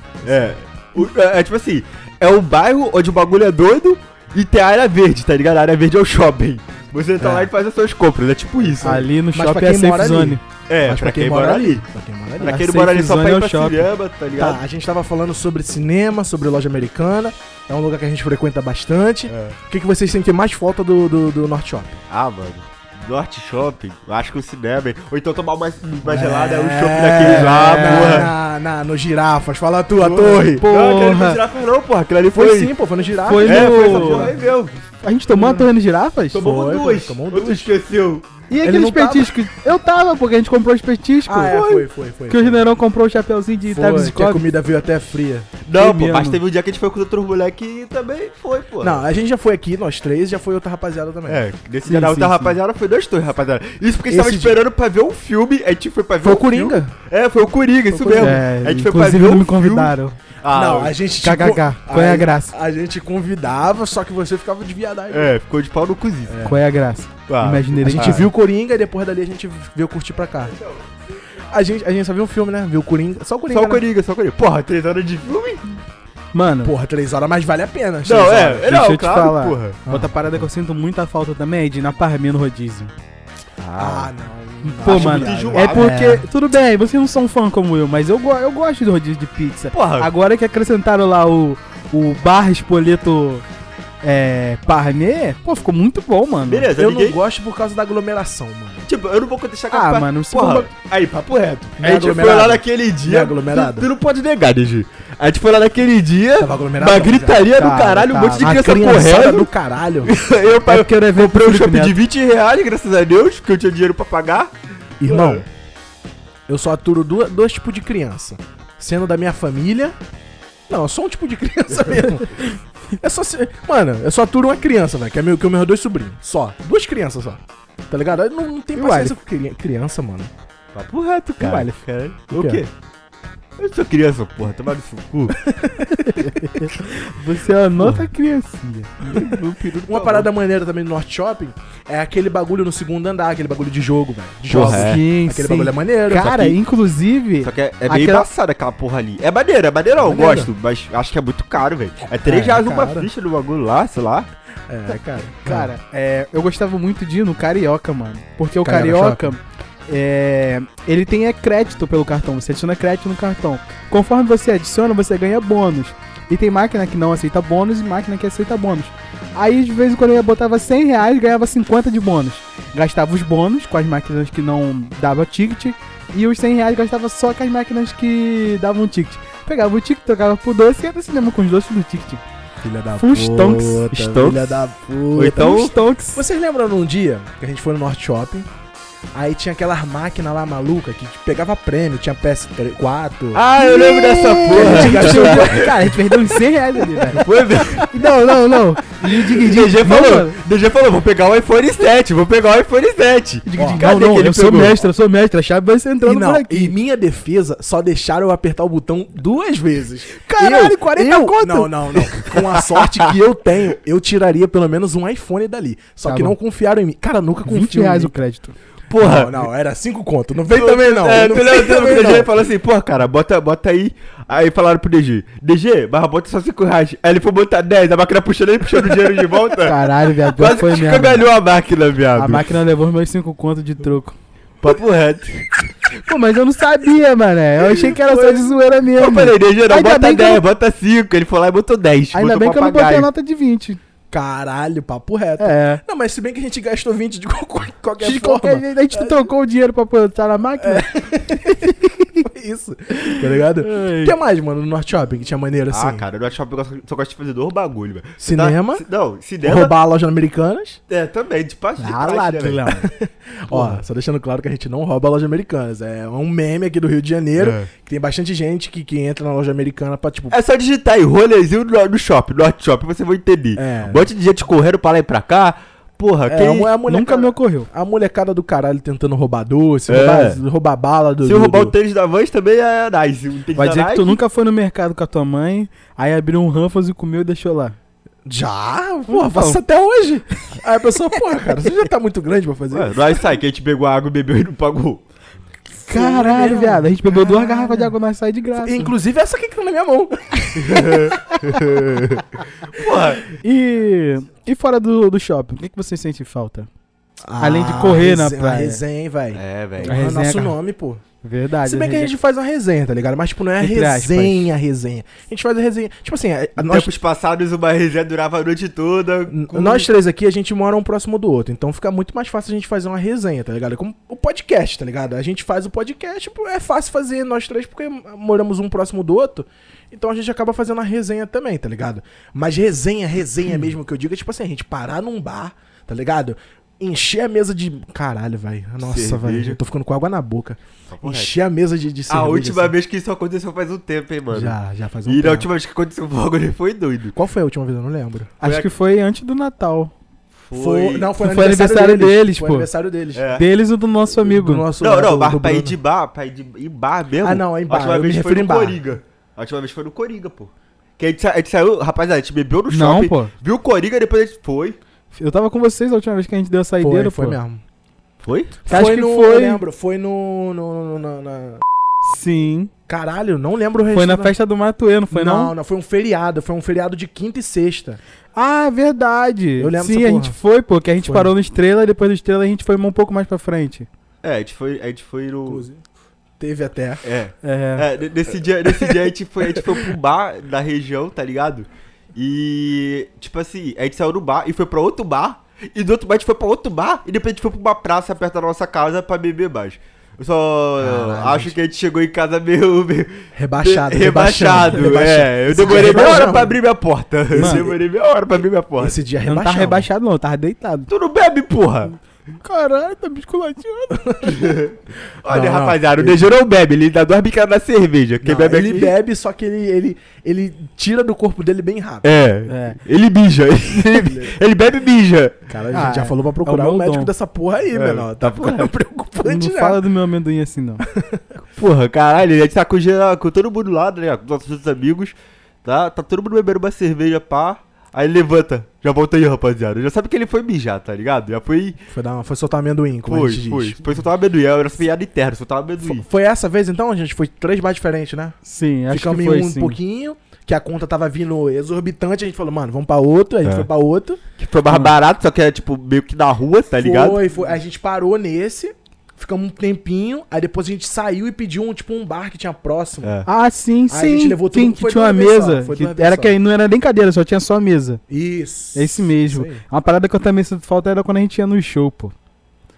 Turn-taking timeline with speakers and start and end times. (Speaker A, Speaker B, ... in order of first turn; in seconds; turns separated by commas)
Speaker A: 0.2-9.0, Speaker B: 7.2-7.5, Speaker B: 8.6-12.6, Speaker C: 8.8-10.4, Speaker A: 10.7-11.8, Speaker A: 12.4-14.6, Speaker C: 12.4-13.9, Speaker B: 14.3-22.0, Speaker A: 19.3-19.6, Speaker A: 22.1-28.3, Speaker B: 26.0-30.6, Speaker C: 27.2-28.2, Speaker A: 29.9-32.7, Speaker C: 30.6-31.4, Speaker B: 32.3-34.4, Speaker C: 33.2-34.3, Speaker A: 33.4-34.8, Speaker C: 35.0-36.5, Speaker B: 35.3-35.7, Speaker A: 36.3-38.3, Speaker B: 36.3-37.7, Speaker C: 38.5-44.5, Speaker B: 38.6-39.3, Speaker B: 41.2-42.6, Speaker B: 43.7-45.5, Speaker A: 45.6-49.0, Speaker C: 45.7-46.4, Speaker B: 48.8-51.4, Speaker A: 51.3-61.0, Speaker C: 51.9-52.6, Speaker B: 54.1-54.6, Speaker B: 56.2-56.9, Speaker B: 57.9-58.4, Speaker C: 58.2-60.1, Speaker B: 60.5-65.3, Speaker C: 61.2-62.5, Speaker A: 65.1-66.4, Speaker B: 66.3-66.6, Speaker C: 66.4-68.3, Speaker A: 67.3-68.3, Speaker B: 67.8-70.5, Speaker B: 71.4-73.8, Speaker A: 73.5-75.6, Speaker C: 76.3-76.7, Speaker B: 76.6-78.8, Speaker A: 78.0-79.8, Speaker C: 78.7-82.9, Speaker B: 79.8-80.1, Speaker A: 83.6-84.1, Speaker B: 83.8-86.2, Speaker C: 84.6-93.4, Speaker A: 84.8-85.9, Speaker A: 89.7-90.1, Speaker C: 94.0-96.7, Speaker A: 96.4-97.2, Speaker B: 96.7-98.9, Speaker A: 98.8-109.5, Speaker C: 99.7-100.7, Speaker B: 101.8-103.9, Speaker B: 106.4-107.5, Speaker C: 107.5-108.6, Speaker B: 108.4-110.1, Speaker A: 110.0-114.5, Speaker C: 110.6-112.0, Speaker B: 115.0-115.5, Speaker A: 115.1-115.4, Speaker B: 116.5-120.0, Speaker B: 120.7-130.3, Speaker C: 128.7-129.1, Speaker A: 130.7-132.7, Speaker C: 131.4-131.8, Speaker B: 132.3-132.6, Speaker A: 133.6-135.4, Speaker B: 135.3-136.6, Speaker C: 136.0-139.2, Speaker A: 137.8-138.0, Speaker B: 139.0-146.6, Speaker A: 139.0-140.3, Speaker A: 144.5-145.0, Speaker C: 144.5-148.3, Speaker A: 147.4-154.3, Speaker B: 150.0-150.5, Speaker B: 152.2-153.1, Speaker B: 154.7-155.7, Speaker C: 155.4-182.2, Speaker B: 158.6-159.3, Speaker B: 182.6-188.5, Speaker C: 183.0-183.9, Speaker A: 183.9-184.6, Speaker A: 185.2-185.7, Speaker C: 185.3-186.2, Speaker B: 189.1-193.4, Speaker A: 193.3-195.9, Speaker C: 193.6-197.2, Speaker B: 194.4-196.0, Speaker A: 197.1-197.9, Speaker B: 197.1-197.8, Speaker C: 197.9-200.4, Speaker A: 199.0-204.8, Speaker C: 203.4-206.7, Speaker B: 203.6-203.8, Speaker B: 206.0-218.1, Speaker C: 210.1-212.1, Speaker A: 212.3-213.1, Speaker C: 216.1-216.3, Speaker C: 217.4-218.5, Speaker A: 218.9-219.4, Speaker B: 219.0-222.3, Speaker A: 220.5-232.5, Speaker C: 229.6-231.3, Speaker C: 232.2-234.1, Speaker A: 234.6-235.5, Speaker C: 236.0-240.4, Speaker A: 237.6-243.1, Speaker C: 242.1-243.8, Speaker B: 244.1-249.3, Speaker C: 245.4-245.8, Speaker C: 248.0-252.3, Speaker B: 250.6-251.7, Speaker B: 252.3-256.1, Speaker C: 253.0-254.1, Speaker A: 255.7-259.7, Speaker B: 258.2-258.8, Speaker B: 259.4-260.8, Speaker A: 260.9-262.8, Speaker C: 261.8-262.9, Speaker B: 262.8-270.4, Speaker A: 267.4-267.7, Speaker A: 270.3-276.7, Speaker B: 273.6-274.1, Speaker B: 276.3-281.7, Speaker C: 276.9-277.7, Speaker A: 279.9-280.4, Speaker A: 281.2-284.2, Speaker C: 283.5-287.8, Speaker B: 288.2-293.2, Speaker C: 289.1-289.6, Speaker A: 292.7-295.0, Speaker B: 295.9-297.9, Speaker C: 295.9-298.9, Speaker B: 298.6-302.0, Speaker A: 300.6-303.3, Speaker C: 303.4-306.7, Speaker B: 307.2-311.0, Speaker C: 307.4-308.8, Speaker A: 309.3-310.0, Speaker C: 309.9-310.6, Speaker C: 311.2-312.1, Speaker B: 311.6-316.9, Speaker C: 313.6-314.5, Speaker A: 316.6-319.9, Speaker B: 319.3-342.7, Speaker A: 338.8-339.6, Speaker A: 340.9-341.3, Speaker A: 342.1-347.1, Speaker B: 344.3-345.5, Speaker B: 347.1-348.3, Speaker C: 348.4-349.9, Speaker A: 348.4-348.7, Speaker A: 350.3-351.1, Speaker B: 350.5-353.2, Speaker C: 351.2-352.7, Speaker A: 353.1-353.4, Speaker C: 353.3-354.6, Speaker B: 354.2-355.8, Speaker A: 354.8-364.8, Speaker B: 357.2-358.9, Speaker C: 362.7-363.3, Speaker C: 365.1-367.4, Speaker B: 366.8-367.6, Speaker A: 368.2-368.6, Speaker B: 368.6-371.6, Speaker C: 368.7-369.6, Speaker C: 372.0-372.7, Speaker B: 372.9-374.3, Speaker C: 373.9-375.5, Speaker B: 375.1-378.0, Speaker C: 378.3-383.9, Speaker B: 379.6-380.4, Speaker B: 381.0-381.3, Speaker A: 384.2-385.6, Speaker B: 385.5-385.8, Speaker B: 386.4-387.0, Speaker A: 387.0-409.0, Speaker C: 387.4-387.9, Speaker B: 388.6-389.9, Speaker B: 400.8-401.6, Speaker B: 403.3-406.6, Speaker C: 405.7-406.3, Speaker B: 407.3-407.8, Speaker C: 407.4-407.6, Speaker B: 408.8-409.9, Speaker C: 409.2-410.9, Speaker A: 410.9-412.0, Speaker C: 412.4-414.2, Speaker B: 413.9-414.6, Speaker A: 414.2-418.9, Speaker B: 415.2-416.3, Speaker B: 418.2-422.1, Speaker A: 422.0-425.5, Speaker C: 422.5-422.8, Speaker B: 423.8-424.3, Speaker B: 425.5-429.8, Speaker C: 425.7-427.1, Speaker A: 427.7-428.7, Speaker C: 429.2-430.8, Speaker B: 430.8-431.2, Speaker A: 431.6-441.8, Speaker B: 441.9-443.8, Speaker A: 443.1-446.0, Speaker B: 445.8-448.4, Speaker C: 448.4-449.8, Speaker B: 448.9-454.2, Speaker A: 454.4-457.2, Speaker B: 456.8-463.1, Speaker C: 463.2-468.0, Speaker B: 463.9-466.4, Speaker B: 468.1-469.6, Speaker C: 468.7-472.1